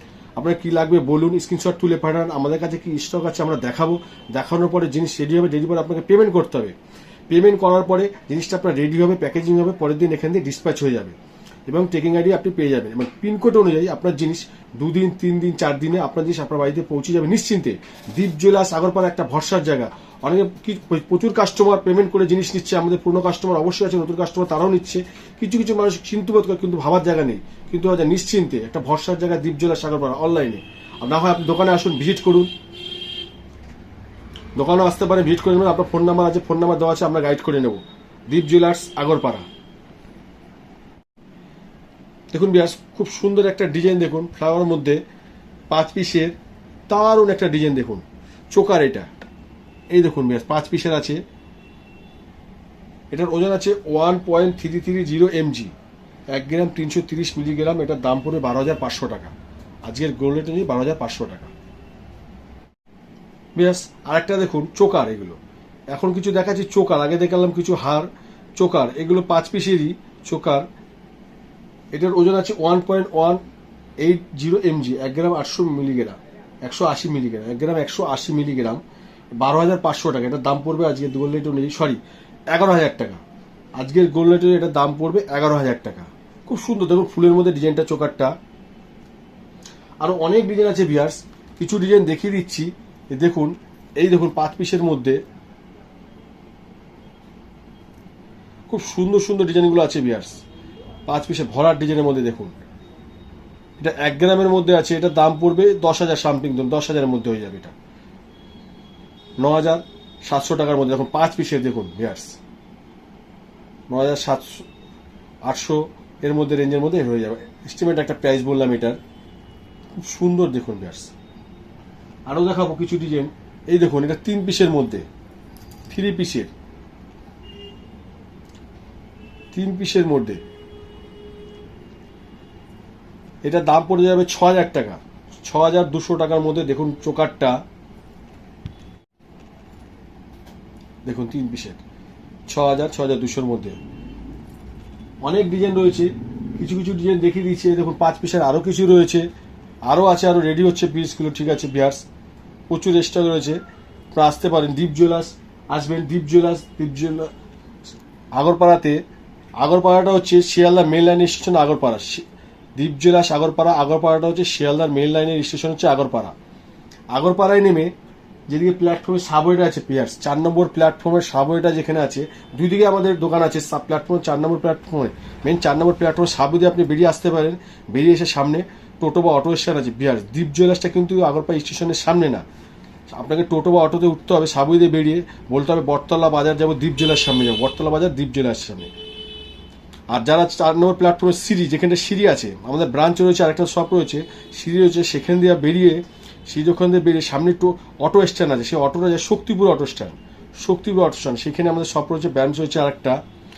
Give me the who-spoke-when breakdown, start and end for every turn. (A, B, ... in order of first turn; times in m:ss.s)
0:00.4-0:06.8 A
0:07.3-0:11.2 A
0:11.7-0:32.5 A
0:34.6-0:39.5 A
0:42.3-0:45.0 A
0:45.7-0:46.4 A
0:46.9-0:49.1 A
0:49.9-0:51.2 A
0:53.1-0:55.7 A
0:56.3-0:59.3 A
0:59.9-1:01.5 A
1:03.6-1:05.4 A
1:05.9-1:10.7 A
1:11.9-1:13.4 A
1:14.0-1:18.8 A
1:19.4-1:22.0 A
1:22.5-1:23.2 A
1:23.8-1:28.3 A
1:30.0-1:35.2 A
1:38.7-1:40.4 A
1:41.1-1:42.6 A
1:43.8-1:47.8 A
1:49.4-1:52.4 A
1:53.9-1:54.7 A
1:55.4-1:59.0 A
2:00.0-2:01.1 A
2:02.3-2:05.1 A
2:05.9-2:06.5 A
2:09.5-2:10.4 A
2:13.4-2:17.6 A
2:21.0-2:21.8 A
2:22.5-2:23.8 A
2:25.2-2:29.3 A
2:29.9-2:32.0 A
2:32.7-2:33.6 A
2:34.1-2:37.3 A
2:38.4-2:39.0 A
2:39.6-2:42.2 A
2:42.8-2:46.3 A
2:47.1-2:47.9 A
2:48.5-3:02.4 A
3:03.1-3:08.9 A
3:10.1-3:23.2 A